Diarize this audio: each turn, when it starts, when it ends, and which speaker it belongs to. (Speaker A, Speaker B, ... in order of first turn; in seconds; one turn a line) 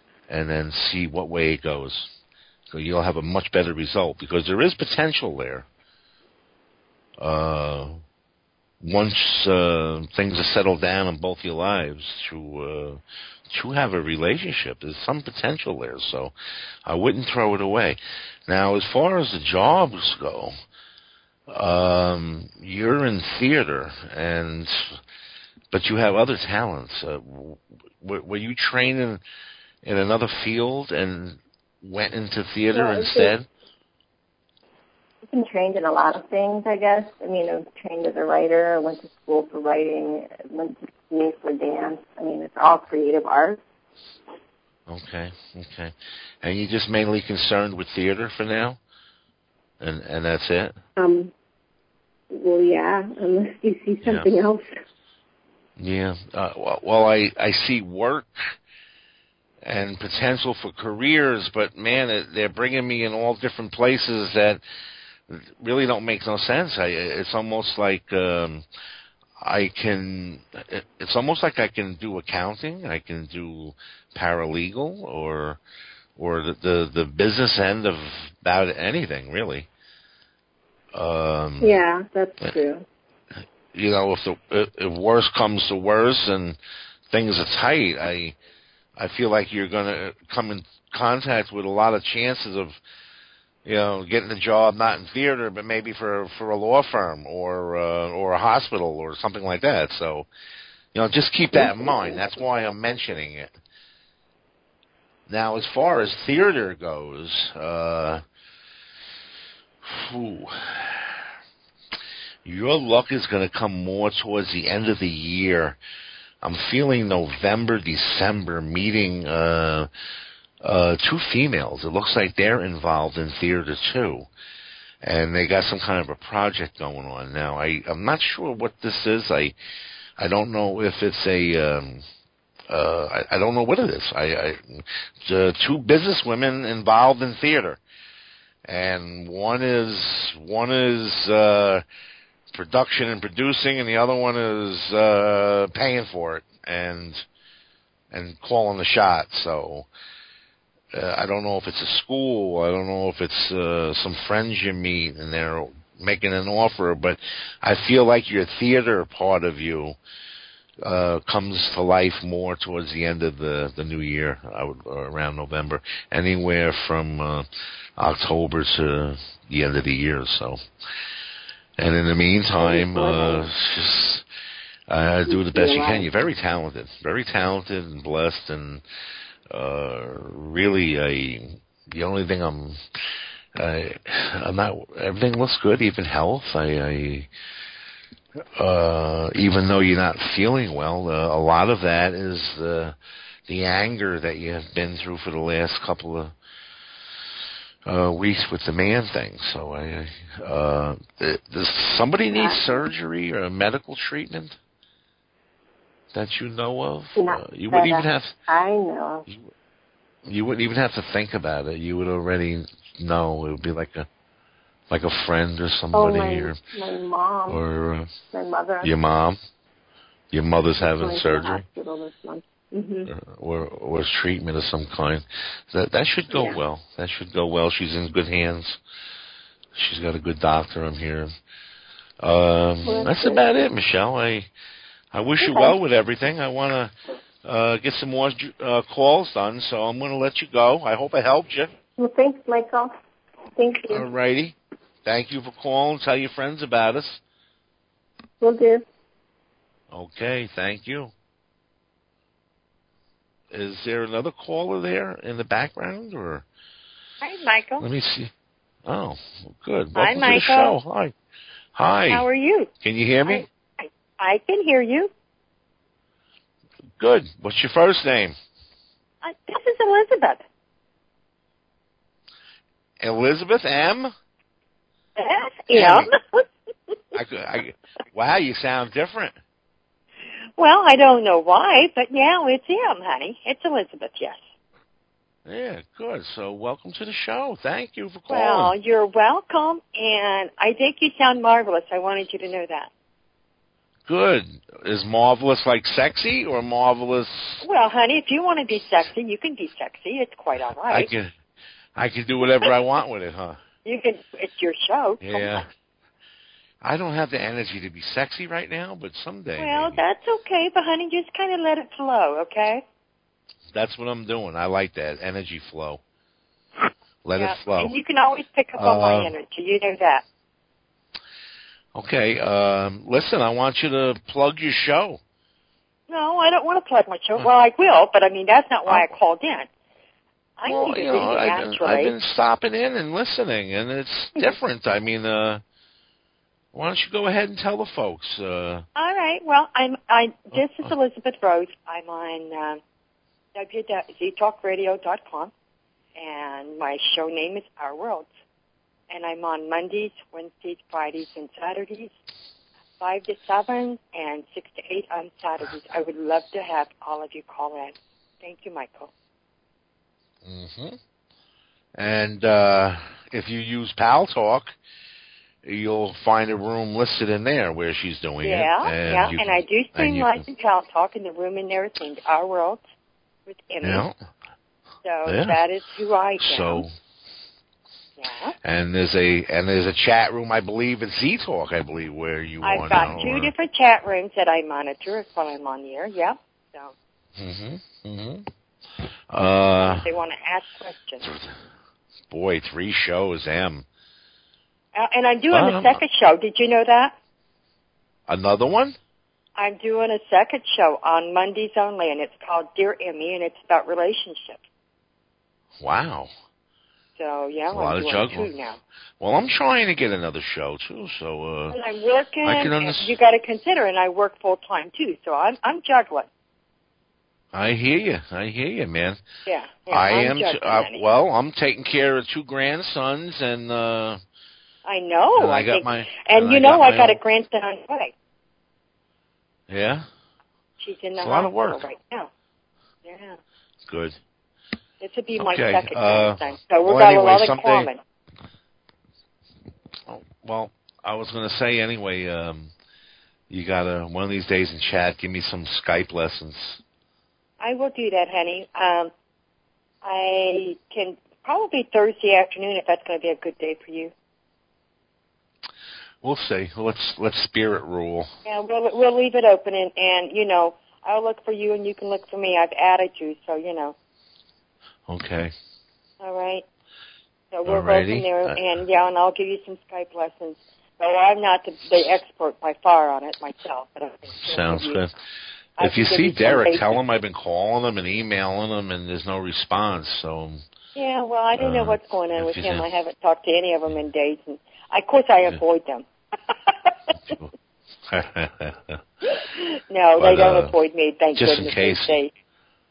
Speaker A: 0.3-2.1
Speaker A: 2.7-5.7
Speaker A: 7.2-8.0
Speaker A: 8.8-13.0
Speaker A: 13.5-16.3
Speaker A: 16.9-20.5
Speaker A: 21.5-25.0
Speaker A: 25.7-29.2
Speaker A: 29.8-33.5
Speaker B: 32.7-33.3
Speaker B: 35.3-43.6
Speaker A: 44.9-48.8
Speaker A: 49.8-50.8
Speaker B: 51.0-51.3
Speaker B: 52.3-54.8
Speaker A: 54.0-54.3
Speaker A: 55.8-58.6
Speaker A: 59.6-64.6
Speaker A: 65.3-68.6
Speaker A: 69.4-75.6
Speaker A: 76.2-79.7
Speaker A: 80.9-81.7
Speaker B: 81.6-82.8
Speaker A: 83.7-86.6
Speaker A: 87.1-88.4
Speaker A: 89.0-92.8
Speaker A: 93.6-100.3
Speaker A: 100.9-103.5
Speaker B: 101.5-102.2
Speaker A: 105.3-108.2
Speaker A: 109.8-111.2
Speaker A: 112.4-115.8
Speaker A: 116.4-119.9
Speaker A: 120.6-124.3
Speaker A: 125.0-129.6
Speaker A: 130.2-132.1
Speaker A: 132.7-137.8
Speaker A: 138.7-141.8
Speaker A: 142.5-147.2
Speaker A: 148.1-149.9
Speaker A: 150.9-160.0
Speaker A: 160.8-167.4
Speaker A: 168.0-170.6
Speaker A: 171.8-174.2
Speaker B: 172.6-173.5
Speaker A: 174.9-178.8
Speaker B: 175.2-176.1
Speaker A: 179.5-182.8
Speaker A: 183.6-187.3
Speaker A: 188.6-192.9
Speaker A: 193.5-196.3
Speaker A: 197.9-204.6
Speaker B: 202.3-202.8
Speaker A: 206.1-208.3
Speaker B: 207.2-209.2
Speaker A: 210.2-214.1
Speaker A: 214.9-216.6
Speaker B: 215.9-217.6
Speaker A: 217.5-218.1
Speaker B: 218.3-218.9
Speaker A: 218.8-219.4
Speaker A: 220.3-221.6
Speaker B: 221.0-223.1
Speaker A: 223.1-228.8
Speaker B: 226.3-226.6
Speaker A: 229.7-231.3
Speaker A: 232.2-234.5
Speaker B: 232.8-233.4
Speaker A: 235.1-236.9
Speaker B: 235.4-235.7
Speaker A: 237.4-241.7
Speaker B: 242.0-242.9
Speaker B: 243.6-244.1
Speaker A: 243.9-247.2
Speaker B: 248.4-248.8
Speaker A: 249.9-251.1
Speaker A: 253.5-256.4
Speaker C: 257.2-257.9
Speaker A: 257.8-258.3
Speaker A: 258.9-261.1
Speaker C: 259.9-260.8
Speaker A: 261.7-262.2
Speaker C: 262.1-262.7
Speaker A: 262.8-263.5
Speaker C: 263.3-265.1
Speaker A: 267.0-268.4
Speaker C: 269.2-270.4
Speaker A: 273.0-274.1
Speaker C: 275.1-276.4
Speaker A: 275.7-276.1
Speaker A: 277.1-279.4
Speaker C: 280.6-284.4
Speaker A: 285.4-288.7
Speaker C: 288.3-292.9
Speaker A: 294.1-297.6
Speaker C: 297.6-301.1
Speaker A: 300.9-301.3
Speaker A: 301.9-303.6
Speaker C: 303.9-305.6
Speaker A: 305.2-305.6
Speaker A: 306.8-310.0
Speaker C: 309.6-312.8
Speaker A: 313.7-316.0
Speaker A: 317.2-317.9
Speaker C: 317.4-320.2
Speaker A: 318.8-319.3
Speaker A: 321.9-325.2
Speaker C: 326.1-329.7
Speaker A: 328.9-329.1
Speaker C: 330.6-332.1
Speaker A: 330.6-335.6
Speaker A: 336.7-338.9
Speaker C: 338.9-342.8
Speaker C: 343.6-345.5
Speaker C: 346.1-348.3
Speaker C: 349.1-352.1
Speaker C: 353.0-359.1
Speaker A: 360.4-361.0
Speaker A: 361.9-364.7
Speaker A: 365.6-370.4
Speaker C: 368.4-372.8
Speaker C: 373.5-374.1
Speaker A: 373.8-374.1
Speaker C: 375.0-376.9
Speaker A: 375.2-375.6
Speaker A: 376.4-376.9
Speaker C: 378.2-378.6
Speaker A: 378.6-383.5
Speaker C: 382.6-386.9
Speaker A: 387.4-388.5
Speaker A: 389.3-390.1
Speaker C: 389.8-391.2
Speaker A: 391.2-391.6
Speaker A: 392.3-393.9
Speaker C: 394.9-397.1
Speaker A: 395.5-396.0
Speaker A: 398.3-398.9
Speaker C: 399.6-404.6
Speaker A: 405.8-406.3
Speaker C: 407.2-408.8
Speaker A: 407.7-408.5
Speaker A: 409.2-411.8
Speaker C: 411.7-416.3
Speaker A: 412.4-413.1
Speaker A: 417.5-419.2
Speaker C: 419.4-421.0
Speaker A: 419.9-424.2
Speaker C: 424.9-428.1
Speaker A: 425.4-427.2
Speaker A: 429.7-430.1
Speaker C: 430.8-432.3
Speaker A: 431.2-431.8
Speaker C: 433.1-433.4
Speaker A: 433.9-434.2
Speaker C: 435.0-438.0
Speaker A: 435.4-437.9
Speaker A: 440.1-442.7
Speaker A: 443.5-446.8
Speaker C: 447.6-449.1
Speaker C: 450.0-454.1
Speaker A: 456.2-458.3
Speaker C: 458.4-463.9
Speaker A: 465.1-465.5
Speaker C: 466.2-466.6
Speaker C: 467.5-475.0
Speaker A: 467.6-468.6
Speaker A: 474.4-475.1
Speaker C: 475.8-477.0
Speaker A: 475.8-480.6
Speaker C: 480.9-487.1
Speaker A: 481.6-482.9
Speaker A: 487.2-487.5
Speaker A: 488.1-489.0
Speaker C: 489.4-492.3
Speaker A: 490.2-490.7
Speaker A: 491.4-492.2